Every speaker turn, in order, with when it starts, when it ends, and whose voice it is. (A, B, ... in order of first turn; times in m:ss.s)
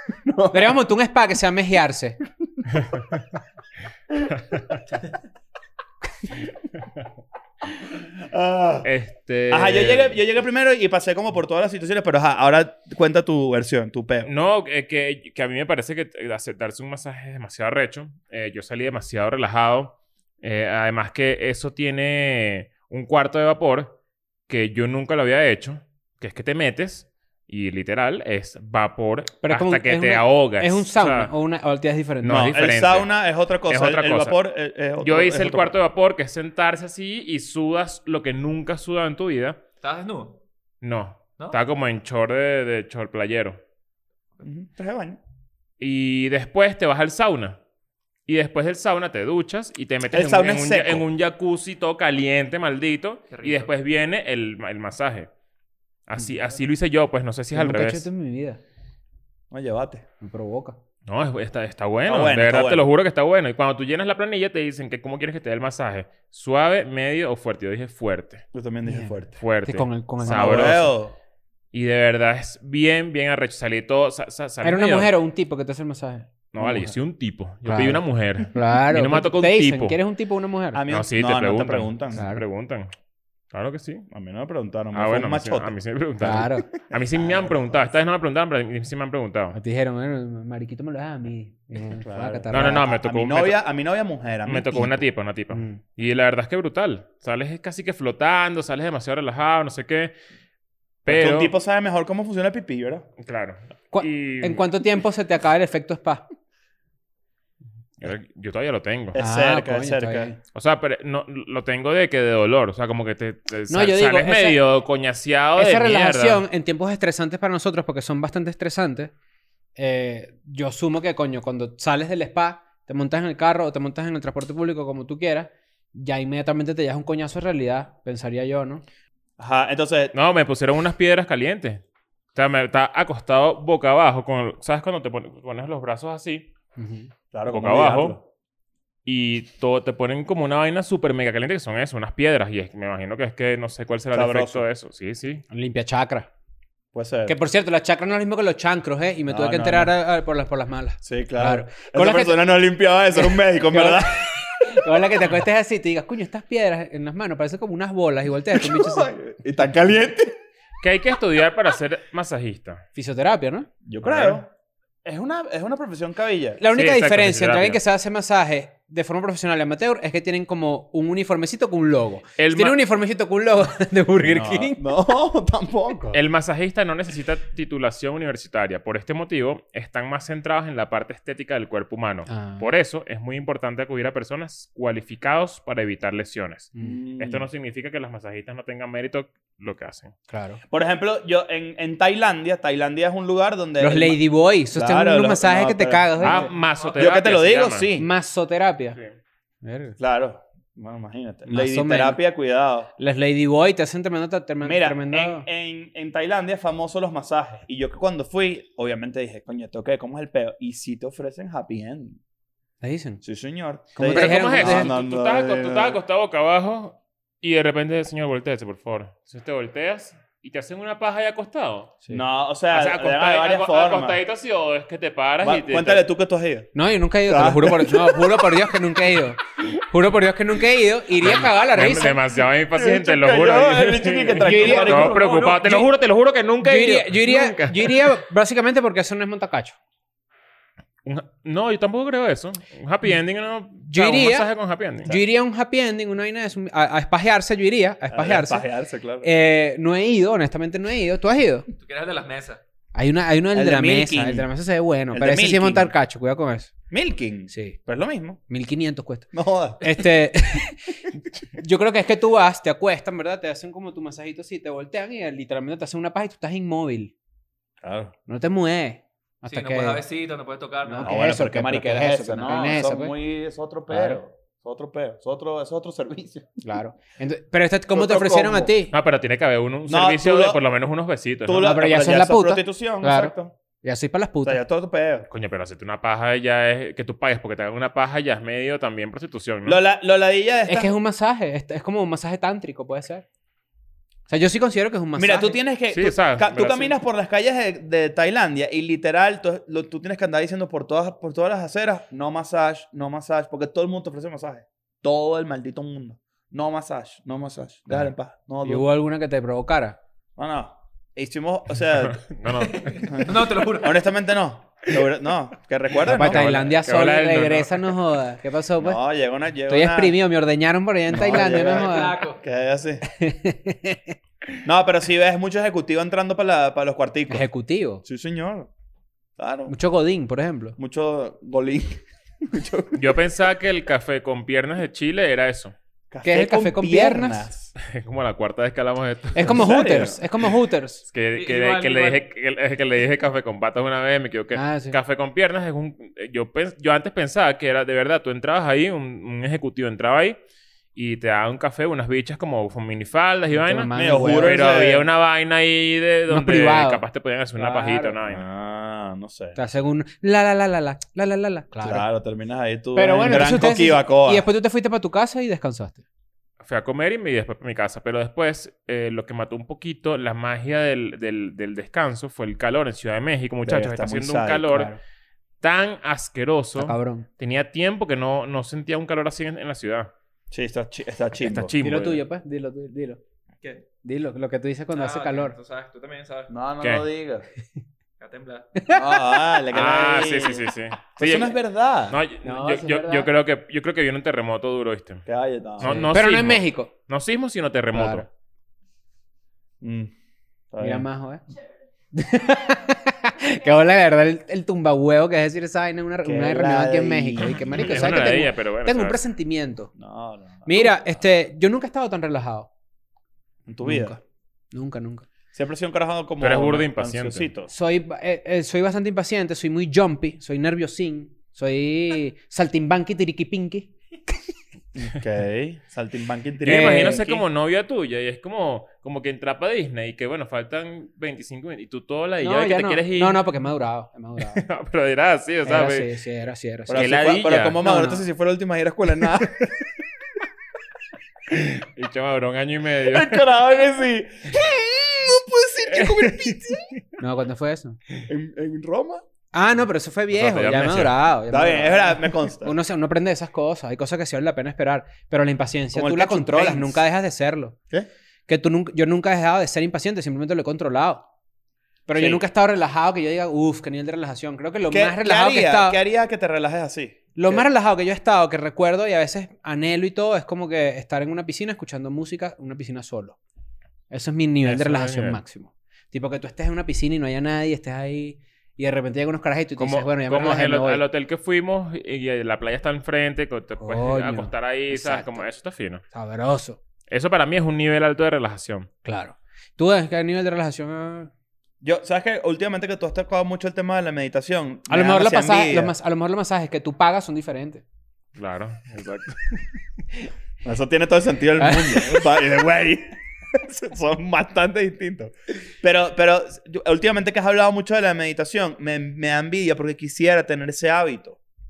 0:00.2-0:00.8 A
0:00.5-0:02.2 B
0:08.2-0:08.9 A
0:08.8-0:10.2 C
0:09.5-0:14.3 A
0:14.2-0:24.0 C
0:24.5-0:31.3 C
0:29.4-0:32.5 B
0:32.2-0:33.1 C
0:32.2-0:35.7 A
0:33.7-0:34.4 C
0:35.0-0:39.6 C
0:39.8-0:40.4 D
0:40.8-0:43.6 C
0:44.4-0:45.2 A
0:45.8-0:47.6 C
0:48.2-0:55.3 C
0:50.1-0:51.0 A
0:53.3-0:53.7 D
0:56.1-0:58.0 C
0:57.5-0:58.6 B
0:59.5-1:00.0 A
1:00.2-1:00.8 B
1:01.1-1:08.4 C
1:02.0-1:02.9 A
1:08.5-1:09.4 A
1:08.8-1:10.8 B
1:09.4-1:10.9 C
1:10.2-1:11.1 A
1:11.7-1:15.1 C
1:14.6-1:16.9 B
1:16.5-1:20.0 C
1:17.6-1:20.8 B
1:20.7-1:22.2 A
1:20.9-1:22.9 C
1:22.1-1:22.4 B
1:23.5-1:24.1 C
1:24.1-1:25.7 A
1:24.9-1:29.6 C
1:26.2-1:26.7 B
1:26.9-1:27.8 A
1:29.5-1:33.0 B
1:32.0-1:35.0 A
1:32.5-1:33.6 C
1:34.4-1:40.1 C
1:35.5-1:35.8 B
1:41.0-1:41.5 C
1:41.0-1:43.1 A
1:43.2-1:44.6 C
1:43.9-1:46.2 B
1:48.0-1:49.2 C
1:49.1-1:50.3 A
1:49.2-1:50.4 B
1:50.5-1:56.4 C
1:53.7-1:54.6 B
1:55.6-1:59.1 B
1:59.8-2:08.8 B
2:09.4-2:10.1 A
2:10.1-2:16.5 C
2:16.8-2:17.1 B
2:17.3-2:18.2 A
2:17.5-2:18.2 C
2:19.0-2:25.4 C
2:24.1-2:24.6 A
2:25.5-2:26.3 B
2:26.9-2:27.4 A
2:27.2-2:32.4 B
2:29.3-2:29.9 A
2:31.0-2:34.8 A
2:33.1-2:39.1 B
2:38.5-2:40.4 A
2:40.8-2:42.8 C
2:42.9-2:43.7 B
2:43.8-2:44.5 A
2:44.0-2:44.4 C
2:45.0-2:46.6 A
2:46.6-2:54.8 B
2:46.7-2:47.8 C
2:52.4-2:52.8 C
2:54.2-2:56.2 A
2:56.1-3:10.1 C
3:02.3-3:02.7 B
3:06.8-3:07.4 A
3:10.3-3:10.6 B
3:10.7-3:14.2 A
3:13.8-3:16.5 B
3:14.7-3:16.4 A
3:16.2-3:17.9 C
3:16.4-3:17.0 D
3:17.0-3:18.1 A
3:18.0-3:19.0 B
3:19.6-3:20.0 B
3:20.0-3:22.9 A
3:21.5-3:22.2 B
3:23.0-3:25.4 B
3:24.6-3:32.2 A
3:32.8-3:33.2 B
3:33.2-3:36.0 A
3:33.9-3:34.9 B
3:34.0-3:42.0 C
3:42.1-3:44.2 A
3:42.7-3:46.0 C
3:45.4-3:46.7 A
3:46.7-3:52.2 B
3:47.2-3:48.7 A
3:51.2-3:58.2 C
3:52.7-3:55.8 A
3:54.4-3:55.8 B
3:56.6-3:59.8 B
4:01.0-4:05.2 C
4:03.9-4:04.5 B
4:05.0-4:08.6 B
4:08.1-4:09.3 A
4:09.2-4:11.7 B
4:11.7-4:12.6 D
4:12.9-4:16.7 B
4:13.5-4:14.5 A
4:15.1-4:15.9 A
4:16.9-4:18.4 A
4:17.5-4:17.8 B
4:18.5-4:19.3 B
4:19.3-4:20.0 A
4:19.8-4:21.0 B
4:21.5-4:27.1 B
4:27.8-4:28.1 A
4:28.3-4:30.0 B
4:29.4-4:31.2 D
4:30.8-4:33.1 B
4:31.0-4:36.6 A
4:33.9-4:34.2 B
4:36.6-4:38.9 B
4:37.9-4:38.7 A
4:38.9-4:41.7 C
4:39.9-4:40.6 A
4:41.4-4:43.5 A
4:41.6-4:44.6 B
4:44.4-4:45.3 A
4:45.3-4:49.8 C
4:49.6-4:50.9 A
4:50.7-4:53.2 B
4:54.3-4:55.6 B
4:55.2-5:08.8 A
4:55.9-4:57.0 C
5:08.6-5:10.0 B
5:10.4-5:12.2 A
5:12.0-5:13.2 C
5:12.5-5:14.0 D
5:13.1-5:16.5 A
5:16.0-5:19.0 B
5:16.0-5:17.9 C
5:18.8-5:20.2 A
5:19.7-5:22.2 B
5:21.1-5:23.0 A
5:21.2-5:22.4 D
5:23.1-5:24.2 B
5:24.6-5:27.5 A
5:27.3-5:28.0 B
5:28.0-5:28.7 A
5:29.4-5:29.7 A
5:29.7-5:30.8 B
5:30.8-5:33.1 A
5:32.9-5:35.7 C
5:36.1-5:37.7 A
5:36.2-5:37.5 B
5:37.8-5:39.6 C
5:39.3-5:41.0 B
5:39.4-5:40.2 A
5:41.1-5:50.4 C
5:41.3-5:42.2 D
5:44.5-5:45.0 B
5:50.9-5:58.4 C
5:53.5-5:54.6 B
5:53.9-5:55.1 A
5:56.3-5:57.0 B
5:57.6-5:58.2 B
5:58.3-5:59.6 A
5:59.6-6:02.0 B
6:01.8-6:04.4 A
6:02.9-6:06.0 B
6:06.6-6:14.9 C
6:13.6-6:14.8 A
6:14.7-6:15.0 B
6:15.6-6:20.1 C
6:16.8-6:17.3 B
6:20.5-6:21.7 A
6:21.4-6:22.2 C
6:21.8-6:23.2 B
6:24.0-6:25.5 B
6:24.9-6:26.5 D
6:26.5-6:27.5 A
6:26.8-6:27.1 C
6:28.2-6:28.7 D
6:28.8-6:29.4 B
6:28.9-6:32.2 A
6:29.7-6:31.6 C
6:32.1-6:35.2 C
6:32.4-6:33.3 B
6:35.2-6:36.1 A
6:35.8-6:38.2 C
6:35.8-6:36.9 B
6:37.9-6:38.2 B
6:39.8-6:40.1 A
6:40.7-6:41.0 A
6:40.8-6:41.4 B
6:42.1-6:49.9 B
6:46.2-6:48.2 A
6:47.6-6:49.2 C
6:50.0-6:51.0 A
6:50.6-6:52.7 B
6:53.7-6:54.2 A
6:53.8-6:54.2 B
6:54.7-6:55.2 B
6:55.5-6:57.7 A
6:56.4-6:57.5 C
6:57.7-7:03.9 B
7:05.0-7:07.4 A
7:06.6-7:13.4 C
7:12.4-7:14.6 B
7:14.5-7:16.1 C
7:15.6-7:17.1 B
7:16.9-7:19.6 A
7:16.9-7:17.8 C
7:17.8-7:18.2 B
7:21.5-7:23.4 C
7:23.1-7:26.9 A
7:27.2-7:28.0 B
7:28.3-7:29.2 A
7:29.5-7:37.8 B
7:30.3-7:31.2 C
7:31.5-7:32.7 A
7:35.9-7:37.0 A
7:38.5-7:41.2 B
7:42.1-7:46.0 B
7:42.1-7:42.4 A
7:44.9-7:47.6 A
7:47.4-7:53.4 B
7:54.1-8:01.0 B
7:54.6-7:55.4 C
7:59.8-8:06.0 C
8:03.8-8:05.4 B
8:06.1-8:06.8 B
8:07.1-8:08.9 C
8:09.0-8:11.3 B
8:11.8-8:15.9 A
8:14.9-8:17.8 B
8:18.3-8:19.6 C
8:20.6-8:31.4 A
8:21.6-8:22.2 B